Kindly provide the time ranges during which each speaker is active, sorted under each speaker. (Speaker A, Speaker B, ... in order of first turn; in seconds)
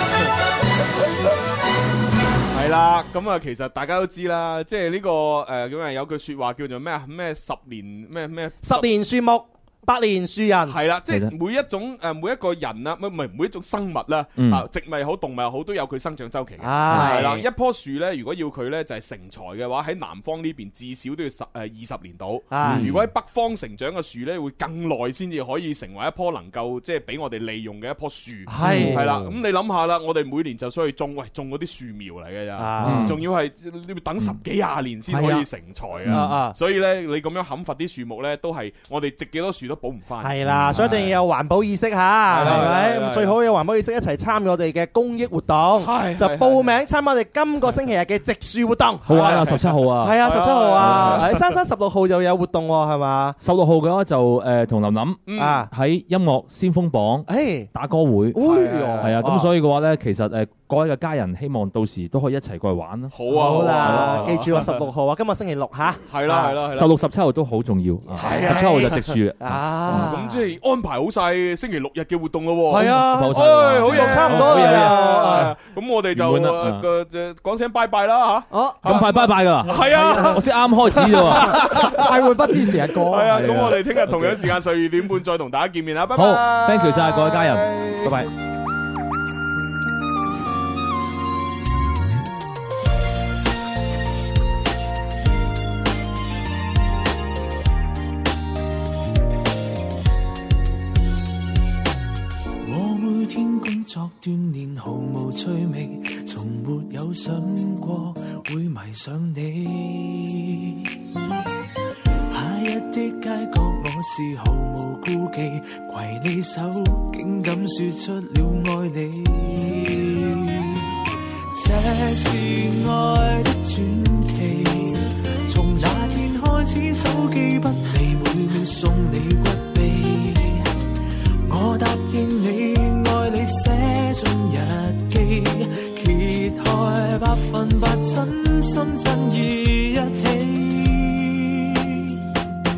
Speaker A: 2.5-8.9, 10.7-41.1, 42.3-43.4, 45.8-46.7, 49.1-51.6, 55.3-55.7, 58.4-59.3, 63.1-64.9, 66.1-67.0, 68.2-69.2, 69.9-82.0, 83.0-88.3
Speaker B: 8.6-10.8, 16.6-17.3, 22.5-23.0, 28.5-29.1, 32.6-33.2, 36.1-36.5, 40.2-53.4, 55.4-55.7, 57.3-57.7, 58.3-59.5, 63.3-66.6, 68.2-70.5, 72.7-75.5
Speaker C: 14.4-14.7, 32.8-33.2, 36.1-36.4, 40.4-41.0, 49.1-50.2, 50.8-51.3, 53.4-58.4, 59.0-64.5, 66.7-70.1, 73.0-75.5, 76.1-76.9, 78.8-81.7, 86.1-88.3
Speaker D: 16.9-17.4, 28.6-29.4, 35.1-35.5, 78.5-78.8, 81.5-83.8
Speaker E: 102.6-110.9, 112.3-130.7, 131.5-142.2